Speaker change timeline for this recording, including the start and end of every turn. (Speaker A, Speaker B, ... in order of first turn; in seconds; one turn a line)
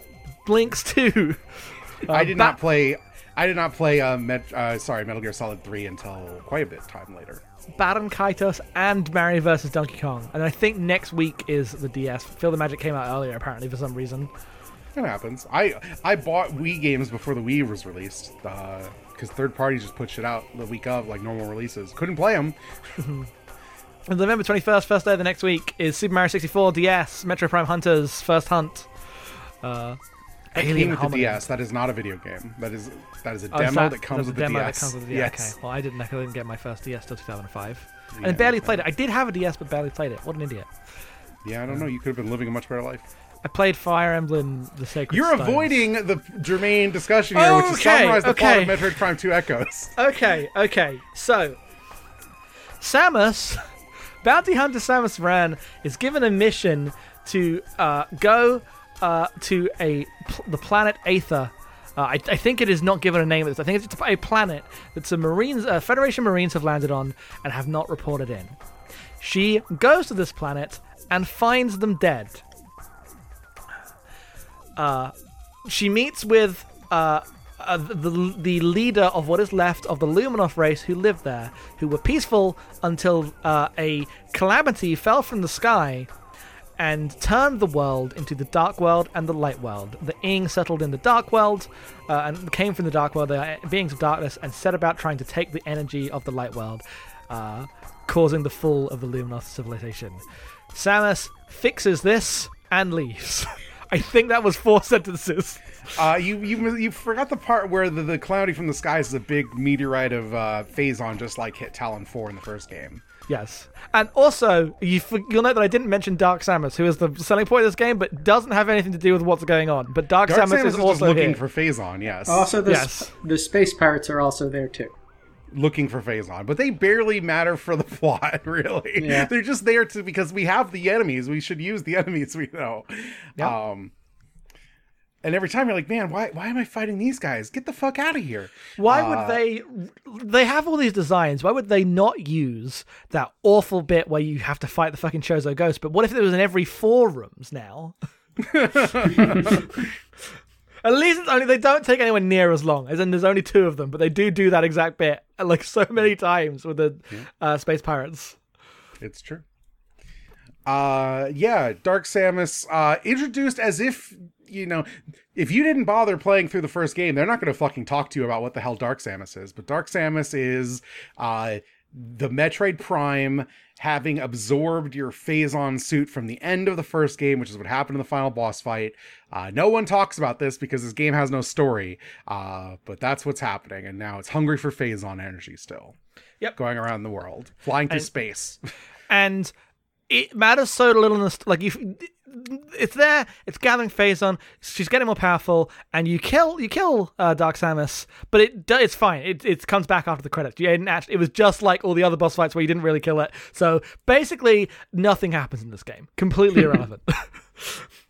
Speaker A: 0.4-2.6
Speaker B: 2.1-7.4
Speaker A: 7.8-14.3
Speaker B: 14.9-22.6
Speaker A: 23.0-23.3
Speaker A: 24.1-30.0
Speaker A: 30.5-31.5
Speaker B: 30.6-35.5
Speaker A: 33.5-40.7
Speaker B: 38.1-38.8
Speaker B: 41.4-43.1
Speaker A: 43.4-45.8
Speaker B: 45.1-50.0
Speaker A: 47.3-49.0
Speaker A: 50.0-51.6
Speaker A: 52.8-53.7
Speaker A: 54.2-68.6
Speaker A: 69.2-72.5
Speaker A: 74.8-75.1
Speaker A: 75.7-86.1
Speaker A: 86.8-106.0
Speaker B: 105.9-113.0
Speaker A: 113.3-121.4
Speaker B: 120.2-122.5
Speaker C: 122.3-124.9
Speaker A: 122.7-123.1
Speaker B: 125.5-133.9
Speaker C: 129.0-129.3
Speaker B: 135.2-139.4
Speaker A: 138.8-147.9
Speaker B: 148.4-149.6
Speaker A: 148.9-149.9
Speaker A: 150.8-158.4
Speaker B: 159.0-159.4
Speaker B: 160.7-185.9
Speaker B: 186.6-188.6
Speaker A: 189.1-189.5
Speaker A: 190.1-207.9